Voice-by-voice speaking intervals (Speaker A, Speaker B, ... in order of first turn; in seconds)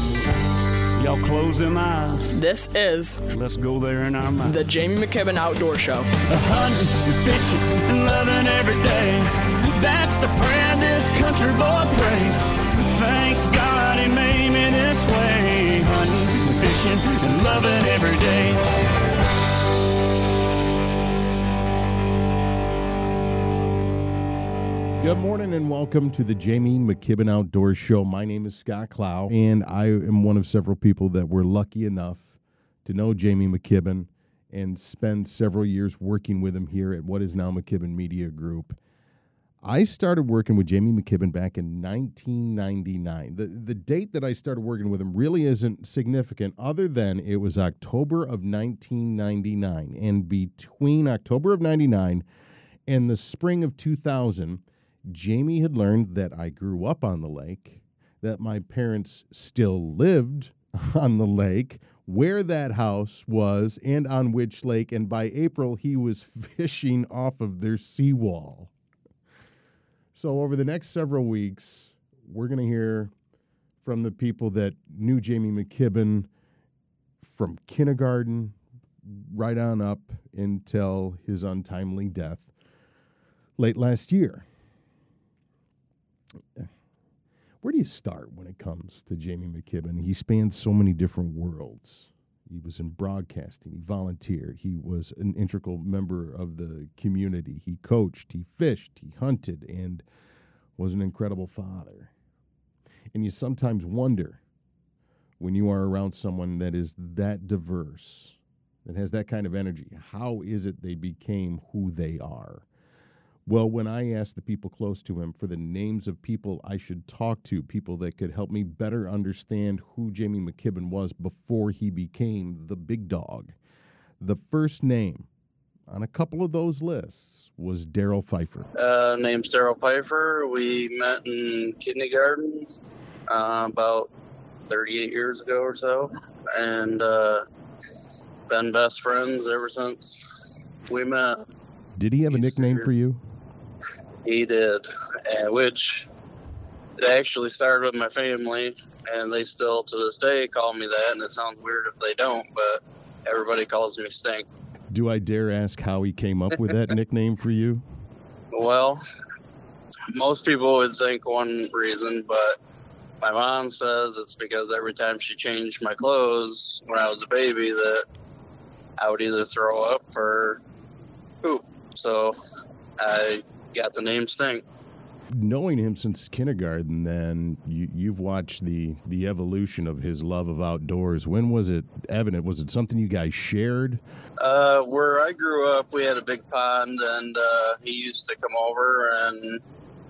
Speaker A: 0.9-2.4, 3.3-4.6, 6.2-18.6
Speaker B: 2.3-3.2, 4.4-6.1
Speaker C: 25.0-38.8, 39.6-52.2, 52.9-68.7, 70.1-73.1, 73.8-76.3, 77.2-82.5, 83.6-84.4, 87.6-100.0, 100.8-102.1, 103.1-104.4, 105.4-112.6, 113.5-123.5, 124.2-125.3, 125.9-128.7, 141.9-143.2, 154.9-157.8, 175.3-184.0
Speaker D: 128.8-132.7, 133.3-134.1, 134.7-137.4, 138.5-140.3, 140.9-141.4, 144.2-146.1, 147.0-154.4, 158.5-159.0, 160.1-162.6, 163.2-168.0, 169.0-170.6, 171.4-172.4, 173.0-174.6, 184.4-189.6